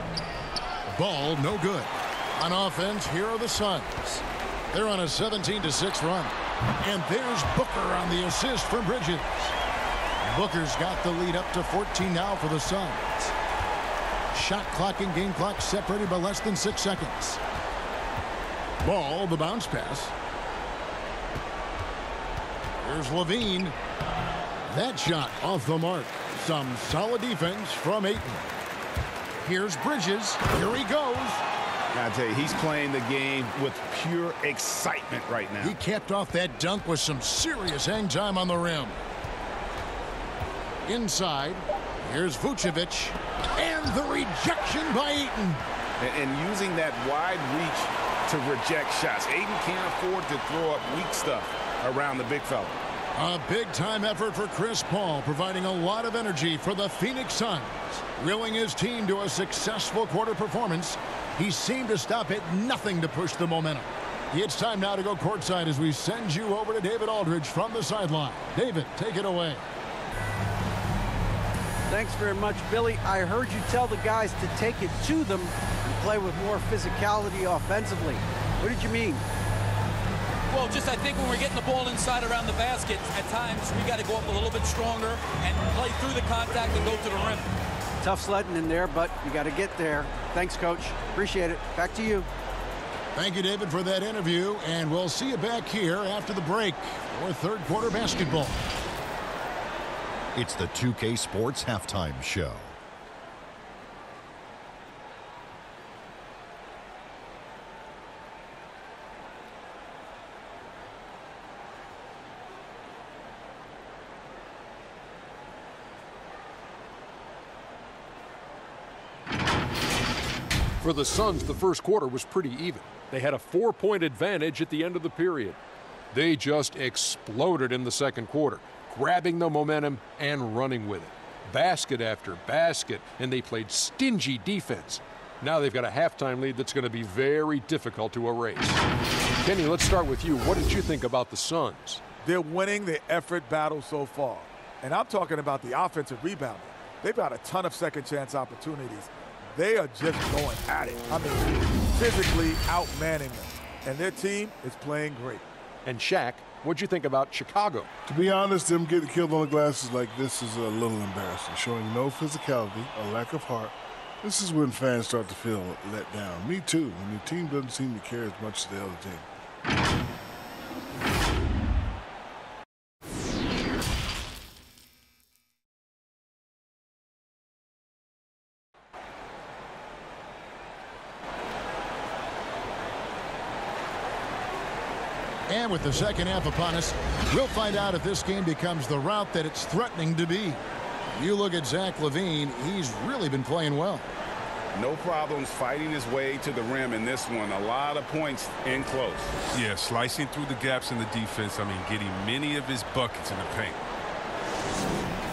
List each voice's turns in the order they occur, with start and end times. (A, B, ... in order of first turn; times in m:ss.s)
0:00.9-0:09.5 A
0:10.3-0:13.3 A
0:14.3-0:17.4 A
0:18.8-0:20.1 A
0:22.8-0:23.8 A
0:24.7-0:28.5 A
0:29.4-0:31.4 A
0:31.9-0:35.8 B
0:35.6-0:39.0 A
0:40.9-0:45.6 A
0:46.0-0:52.8 B
0:53.1-1:09.6 A
1:11.9-1:19.2 C
1:20.5-1:27.5 D
1:28.0-1:32.3 C
1:33.1-1:38.6 A
1:40.3-1:42.7 E
2:00.8-2:05.6 F
2:06.1-2:18.8 F
2:19.4-2:22.0 F
2:22.2-2:35.4 G
2:35.8-2:37.9 F
2:38.0-2:49.2 H
3:05.5-3:10.6 A
3:11.1-3:14.1 A
3:14.7-3:19.3 B
3:19.5-3:23.8 I